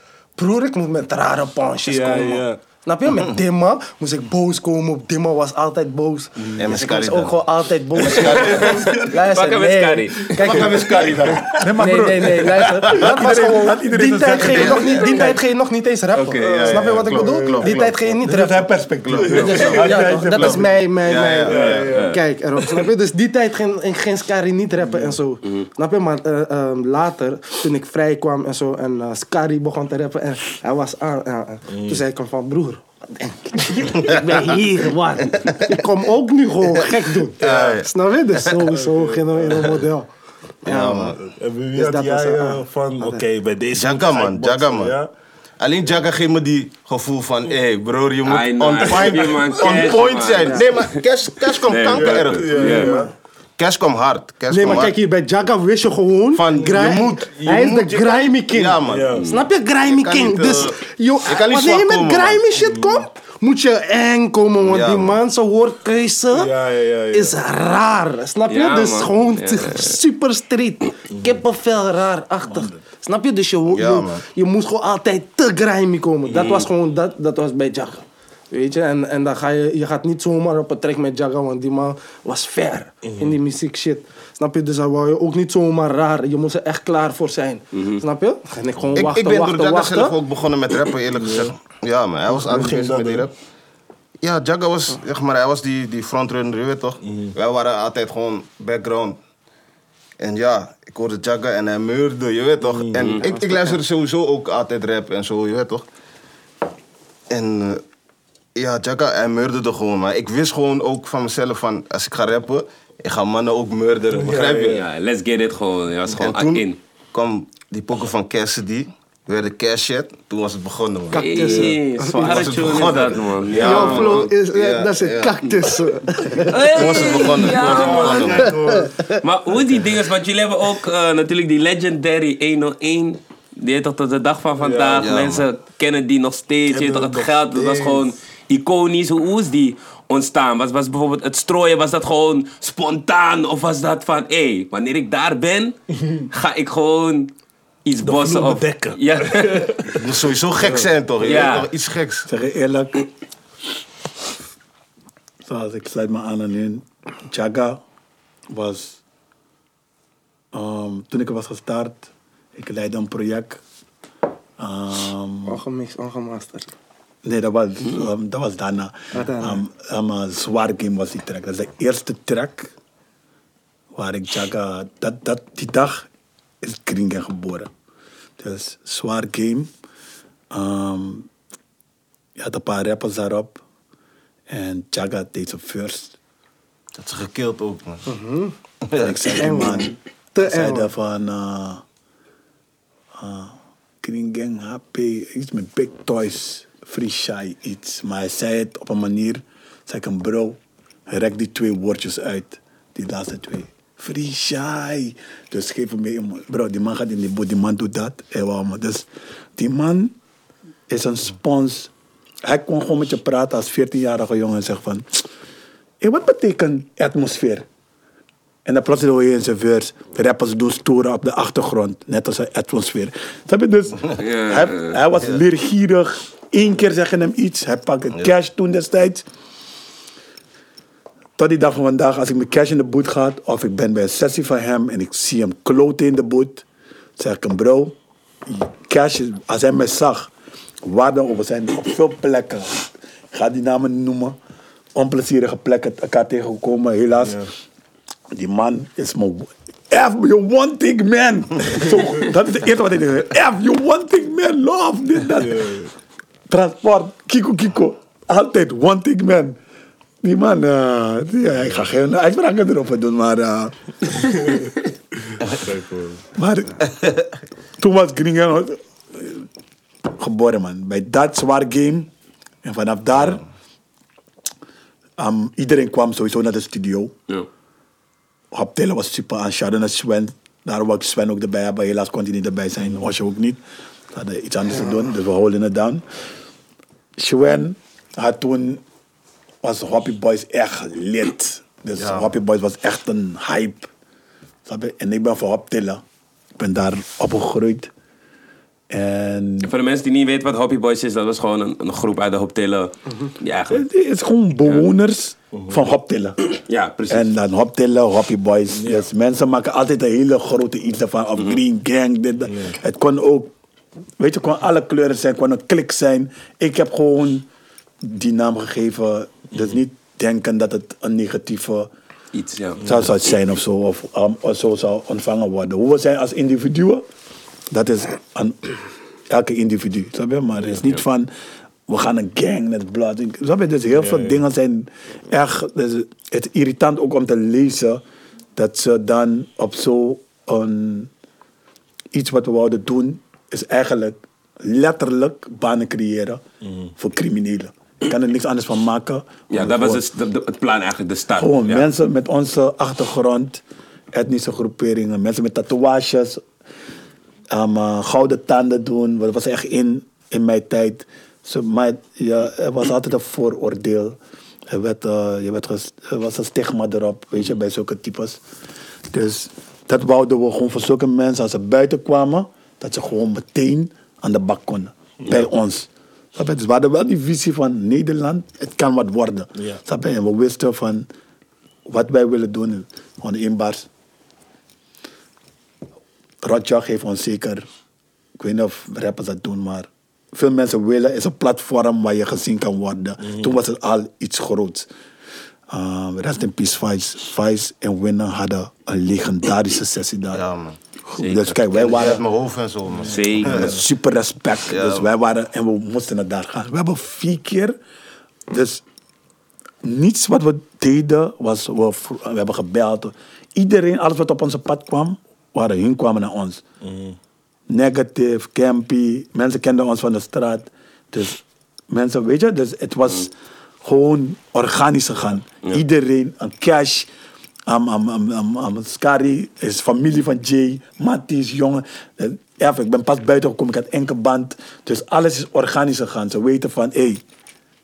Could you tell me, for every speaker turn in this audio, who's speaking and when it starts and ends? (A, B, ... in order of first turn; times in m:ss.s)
0:00.4-0:11.1 A
0:01.8-0:02.6 B
0:06.6-0:07.4 C
0:08.0-0:09.0 C
0:08.2-0:10.7 D
0:10.3-0:11.6 C
0:11.6-0:15.0 E
0:11.8-0:40.1 A
0:14.4-0:15.4 C
0:15.0-0:15.3 D
0:16.1-0:16.5 D
0:16.4-0:18.2 C
0:16.4-0:17.7 B
0:18.2-0:20.7 E
0:19.0-0:21.9 C
0:21.5-0:22.1 B
0:21.9-0:22.2 D
0:24.9-0:25.2 B
0:31.7-0:32.0 B
0:34.0-0:34.4 C
0:35.3-0:35.8 C
0:36.7-0:38.6 C
0:37.4-0:37.8 B
0:38.7-0:39.8 B
0:40.6-0:41.2 A
0:40.6-0:41.2 C
0:41.2-0:45.1 B
0:41.8-0:43.2 A
0:43.8-0:45.0 C
0:45.6-0:53.0 C
0:48.3-0:51.0 D
0:51.6-0:53.0 D
0:51.9-0:53.1 B
0:52.6-0:53.1 A
0:53.6-0:55.0 C
0:54.5-1:06.5 A
0:56.3-0:59.2 C
0:56.6-0:57.7 B
0:58.9-0:59.2 B
0:59.2-0:59.4 D
0:59.9-1:02.4 C
1:02.6-1:03.0 B
1:04.6-1:05.2 C
1:06.3-1:07.4 B
1:07.1-1:30.2 A
1:08.5-1:10.0 D
1:12.4-1:12.8 E
1:13.7-1:14.2 C
1:16.3-1:16.6 B
1:16.3-1:16.7 D
1:23.0-1:23.4 B
1:27.7-1:28.0 D
1:28.9-1:33.3 C
1:31.2-1:31.5 B
1:32.3-1:33.3 B
1:34.2-1:39.2 C
1:37.0-1:37.3 B
1:40.2-1:45.8 C
1:42.6-1:43.2 B
1:43.0-1:43.2 D
1:47.3-1:47.8 C
1:48.6-1:54.8 C
1:54.1-1:54.8 B
1:54.6-1:56.8 D
1:56.1-2:05.8 C
2:01.1-2:02.9 A
2:01.2-2:04.2 D
2:03.6-2:07.0 A
2:06.4-2:09.2 C
2:06.5-2:08.5 D
2:07.4-2:08.9 B
2:09.2-2:25.8 D
2:14.6-2:15.1 B
2:15.0-2:15.5 C
2:16.7-2:17.3 B
2:17.5-2:18.0 C
2:26.3-2:27.3 D
2:27.8-2:29.7 D
2:28.0-2:30.1 B
2:30.0-2:32.3 C
2:30.6-2:30.9 B
2:31.2-2:31.7 D
2:32.3-2:33.1 E
2:35.4-2:37.8 E
2:38.5-2:39.0 E
2:40.5-2:43.6 E
2:44.6-2:45.6 E
2:45.5-2:46.7 A
2:47.2-2:52.7 E
2:49.1-2:49.6 A
2:53.9-2:56.1 E
2:56.6-2:57.7 E
2:58.4-2:59.7 E
3:00.5-3:01.3 E
3:02.4-3:03.6 E
3:04.5-3:06.2 E
3:07.0-3:08.0 C
3:08.1-3:08.6 A
3:08.8-3:09.9 C
3:09.0-3:11.8 E
3:09.4-3:10.9 A
3:13.1-3:30.2 E
3:30.9-3:31.9 E
3:32.4-3:35.2 E
3:36.0-3:37.7 E
3:38.6-3:49.2 E
3:44.2-3:45.0 D
3:51.4-3:56.6 E
3:57.2-4:00.3 E
4:00.8-4:04.4 E
4:05.0-4:07.4 E
4:07.2-4:07.5 B
4:08.3-4:15.8 E
4:15.4-4:15.9 B
4:16.5-4:19.6 E
4:20.2-4:24.6 E
4:25.5-4:26.2 B
4:26.4-4:26.9 E
4:27.8-4:29.5 E
4:30.0-4:32.1 E
4:32.6-4:33.4 E
4:35.2-4:37.1 E
4:38.5-4:43.6 E
4:44.1-4:46.0 E
4:47.2-4:48.8 E
4:49.6-4:53.9 E
4:52.0-4:52.3 C
4:54.7-4:56.0 E
4:56.6-4:57.9 E
4:58.9-4:59.7 E
4:59.6-5:03.8 D
5:03.7-5:06.4 E
5:05.5-5:05.8 B
5:06.5-5:07.3 D
5:07.1-5:13.5 E
5:08.8-5:09.1 B
5:12.5-5:12.8 B
5:14.2-5:17.5 E
5:18.0-5:21.9 E
5:22.3-5:22.8 D
5:22.8-5:23.1 B
5:22.8-5:27.0 E
5:27.7-5:28.7 E
5:29.3-5:31.3 E
5:31.9-5:38.0 E
5:33.9-5:34.4 B
5:38.6-5:41.1 E
5:42.1-5:46.4 E
5:46.6-5:46.9 B
5:47.0-5:50.0 E
5:49.5-5:51.9 D
5:51.4-5:56.4 E
5:57.5-6:04.2 E
6:04.7-6:08.4 E
6:09.1-6:21.1 E
6:21.9-6:23.9 E
6:26.4-6:27.6 E
6:28.4-6:34.9 E
6:33.2-6:33.5 B
6:35.7-6:40.4 E
6:40.3-6:40.8 C
6:41.1-6:42.2 E
6:41.2-6:41.6 D
6:41.7-6:43.7 C
6:43.1-6:43.8 D
6:43.4-6:47.8 E
6:44.7-6:45.1 C
6:48.5-6:48.8 E
6:49.8-6:56.6 E
6:56.8-6:57.2 B
6:57.7-7:07.1 E
7:07.7-7:17.2 E